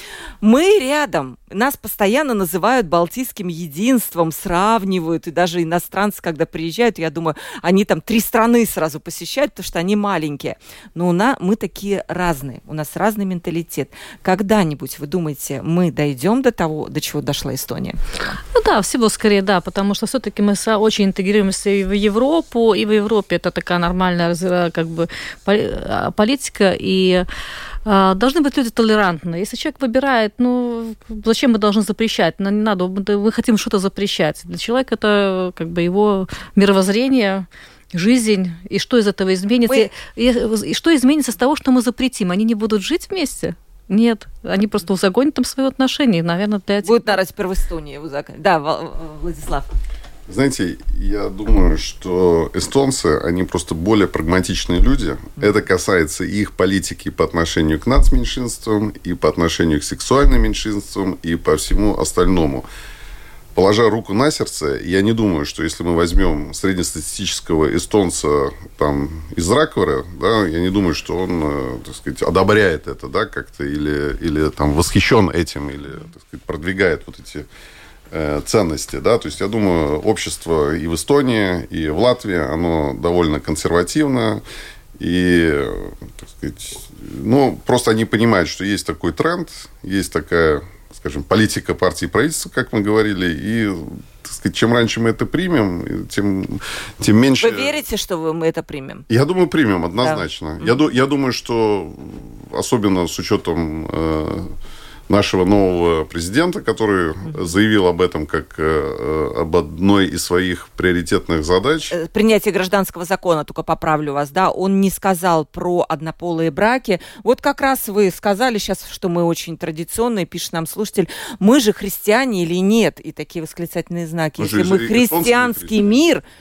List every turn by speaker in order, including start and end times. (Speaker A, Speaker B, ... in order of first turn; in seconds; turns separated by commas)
Speaker A: 0.4-18.4, Speaker B: 18.5-27.3, Speaker B: 27.9-47.1, Speaker A: 46.8-49.7, Speaker C: 50.3-62.6, Speaker C: 63.5-77.5, Speaker C: 78.1-84.4, Speaker C: 85.0-97.8, Speaker A: 97.4-99.0, Speaker C: 99.1-104.5, Speaker A: 100.0-100.8, Speaker C: 105.1-111.9, Speaker A: 111.9-126.2, Speaker C: 124.4-126.0